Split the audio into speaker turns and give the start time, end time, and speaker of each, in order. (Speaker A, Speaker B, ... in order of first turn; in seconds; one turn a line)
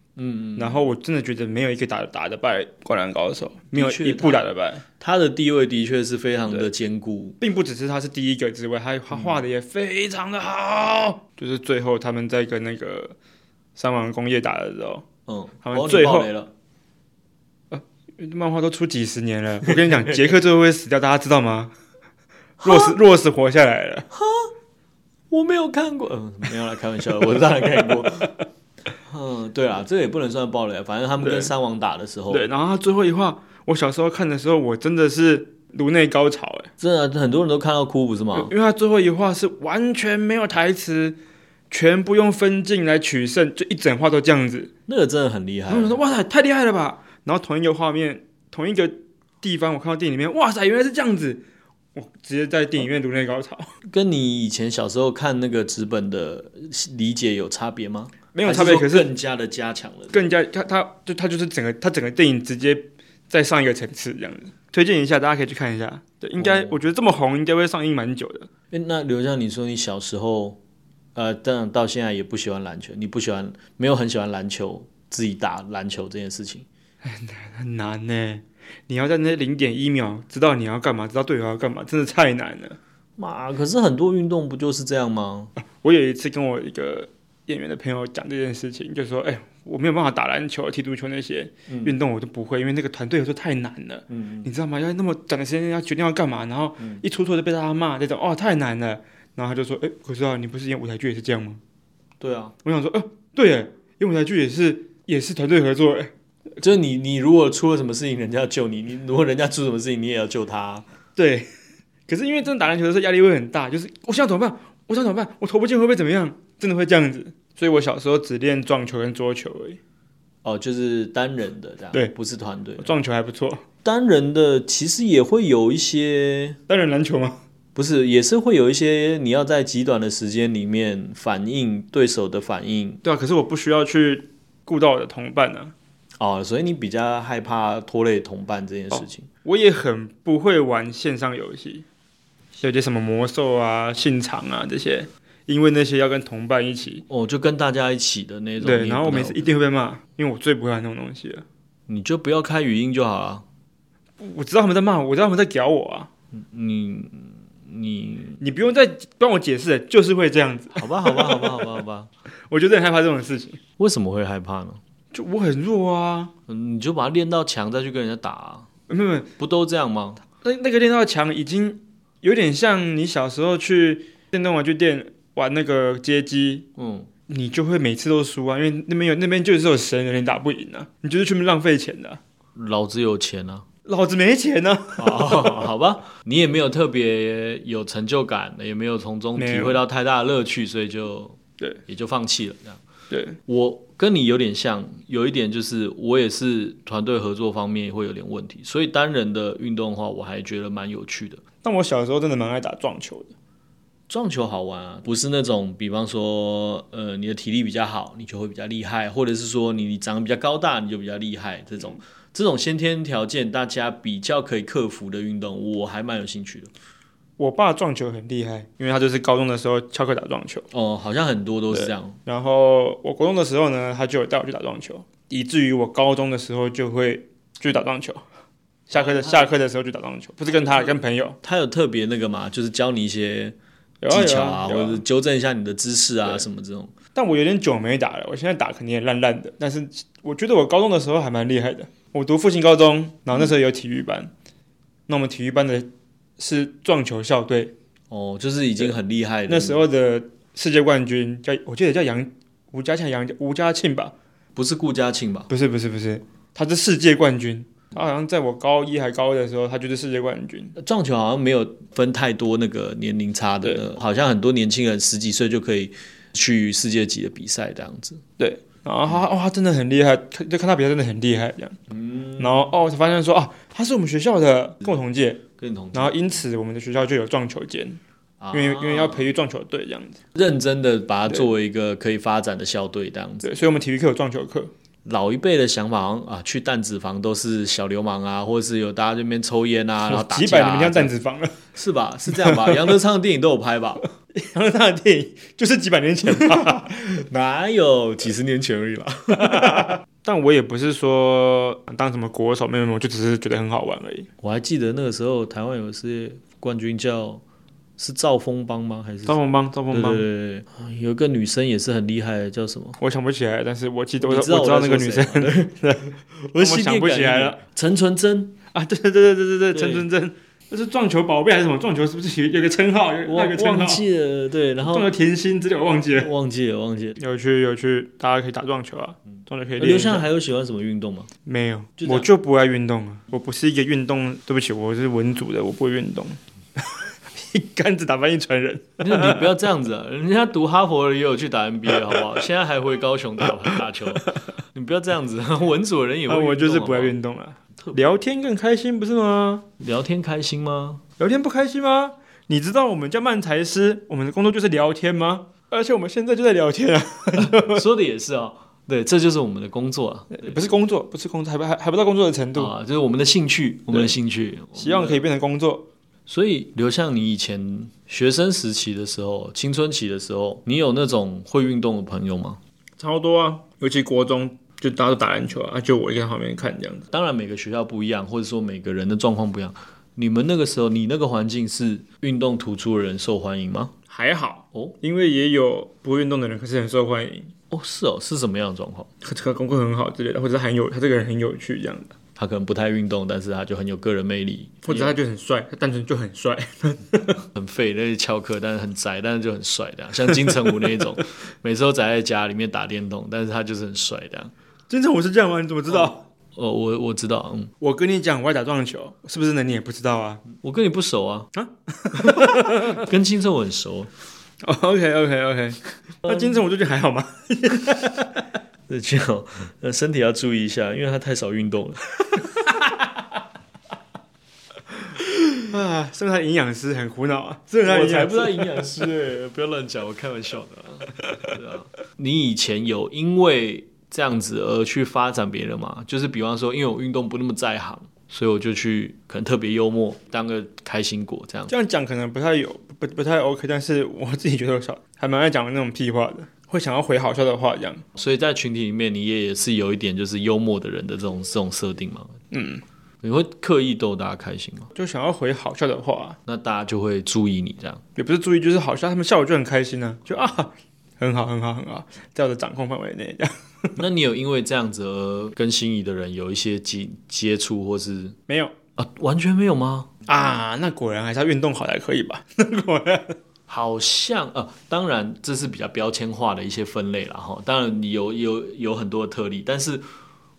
Speaker A: 0.2-0.9
Speaker B: 0.6-4.8
Speaker A: 3.7-4.4
Speaker A: 5.0-7.4
Speaker B: 7.4-13.2
Speaker A: 9.1-9.4
Speaker B: 13.8-15.1
Speaker A: 15.3-16.5
Speaker B: 15.6-16.3
Speaker B: 17.7-21.7
Speaker A: 19.6-20.3
Speaker A: 22.6-23.0
Speaker B: 22.6-24.1
Speaker A: 24.1-24.5
Speaker A: 25.3-28.3
Speaker A: 29.1-32.5
Speaker B: 31.2-31.5
Speaker B: 32.3-36.7
Speaker A: 36.8-38.5
Speaker B: 38.4-41.2
Speaker B: 41.7-44.7
Speaker A: 44.9-46.0
Speaker B: 45.7-51.4
Speaker B: 52.0-53.7
Speaker A: 53.8-60.2
Speaker B: 58.3-59.1
Speaker B: 60.1-68.5
Speaker A: 66.4-66.8
Speaker A: 68.7-70.6
Speaker A: 71.2-76.7
Speaker B: 77.0-82.8
Speaker A: 83.2-85.5
Speaker B: 85.6-101.6
Speaker A: 91.7-92.0
Speaker A: 94.1-94.5
Speaker A: 102.2-102.5
Speaker B: 102.6-106.1
Speaker A: 106.6-110.8
Speaker B: 111.2-111.5
Speaker B: 112.1-119.8
Speaker A: 120.4-122.9
Speaker B: 122.8-123.6
Speaker A: 123.8-126.6
Speaker B: 126.7-127.4
Speaker A: 127.8-133.0
Speaker B: 133.0-135.7
Speaker A: 136.2-139.3
Speaker B: 138.9-141.8
Speaker B: 142.6-147.1
Speaker A: 147.1-149.5
Speaker B: 148.6-151.4
Speaker A: 151.9-153.4
Speaker B: 154.2-156.1
Speaker A: 156.3-158.4
Speaker B: 158.4-161.7
Speaker A: 160.8-162.1
Speaker B: 162.5-163.6
Speaker A: 163.8-164.8
Speaker B: 165.1-166.3
Speaker A: 166.5-168.7
Speaker B: 168.9-169.3
Speaker A: 169.4-170.2
Speaker B: 170.4-176.7
Speaker A: 176.8-177.1
Speaker B: 177.3-182.2
Speaker A: 182.6-183.7
Speaker B: 183.8-185.7
Speaker A: 185.0-192.8
Speaker B: 189.4-189.8
Speaker B: 193.1-193.4
Speaker A: 193.5-201.4
Speaker B: 201.6-203.3
Speaker A: 204.1-216.7
Speaker B: 217.4-220.7
Speaker A: 220.7-222.2
Speaker B: 221.7-228.2
Speaker B: 228.9-231.4
Speaker A: 228.9-229.5
Speaker A: 230.5-233.6
Speaker B: 234.0-235.0
Speaker A: 234.1-236.9
Speaker B: 237.2-244.3
Speaker B: 245.1-247.7
Speaker A: 248.1-249.8
Speaker B: 249.5-254.1
Speaker A: 254.6-255.5
Speaker B: 255.5-260.8
Speaker A: 260.8-268.2
Speaker B: 268.4-271.8
Speaker A: 271.9-272.7
Speaker B: 272.4-275.4
Speaker A: 275.6-276.3
Speaker B: 275.9-278.0
Speaker A: 278.4-279.3
Speaker B: 278.5-280.2
Speaker A: 280.4-283.5
Speaker B: 283.4-284.7
Speaker A: 285.1-291.1
Speaker B: 290.1-291.6
Speaker A: 291.7-294.0
Speaker B: 292.3-292.9
Speaker B: 294.3-297.1
Speaker A: 297.1-299.9
Speaker B: 299.3-304.3
Speaker A: 304.4-307.4
Speaker A: 308.0-309.4
Speaker B: 309.3-310.3
Speaker A: 309.9-313.0
Speaker B: 313.0-317.6
Speaker A: 314.2-315.7
Speaker A: 316.4-318.6
Speaker B: 318.7-324.0
Speaker A: 319.7-320.1
Speaker A: 323.2-325.1
Speaker B: 324.8-326.3
Speaker A: 326.1-327.2
Speaker B: 327.2-330.3
Speaker A: 329.8-331.3
Speaker B: 331.5-339.5
Speaker A: 332.0-332.3
Speaker A: 339.0-347.1
Speaker B: 346.3-349.7
Speaker A: 349.8-351.0
Speaker B: 351.2-357.8
Speaker A: 357.4-360.6
Speaker B: 360.3-362.7
Speaker A: 362.6-365.2
Speaker B: 364.8-365.9
Speaker A: 366.3-372.6
Speaker B: 373.0-377.1
Speaker A: 377.1-383.9
Speaker B: 384.1-387.5
Speaker A: 387.7-389.1
Speaker B: 389.2-392.1
Speaker A: 392.4-395.1
Speaker B: 394.9-397.4
Speaker A: 397.6-404.5
Speaker B: 404.9-406.2
Speaker A: 405.9-407.7
Speaker B: 407.8-410.4
Speaker A: 410.5-411.5
Speaker B: 411.5-413.1
Speaker A: 412.2-414.1
Speaker B: 414.6-418.4
Speaker A: 418.9-422.0
Speaker B: 422.6-422.9
Speaker B: 425.6-428.8
Speaker A: 427.8-441.7
Speaker B: 441.7-448.0
Speaker A: 448.2-452.4
Speaker B: 452.5-452.8
Speaker A: 453.2-454.9
Speaker B: 454.9-456.4
Speaker A: 456.5-458.0
Speaker B: 458.2-464.0
Speaker A: 464.0-468.4
Speaker B: 468.5-468.8
Speaker A: 469.0-470.1
Speaker B: 470.3-473.4
Speaker A: 473.7-480.0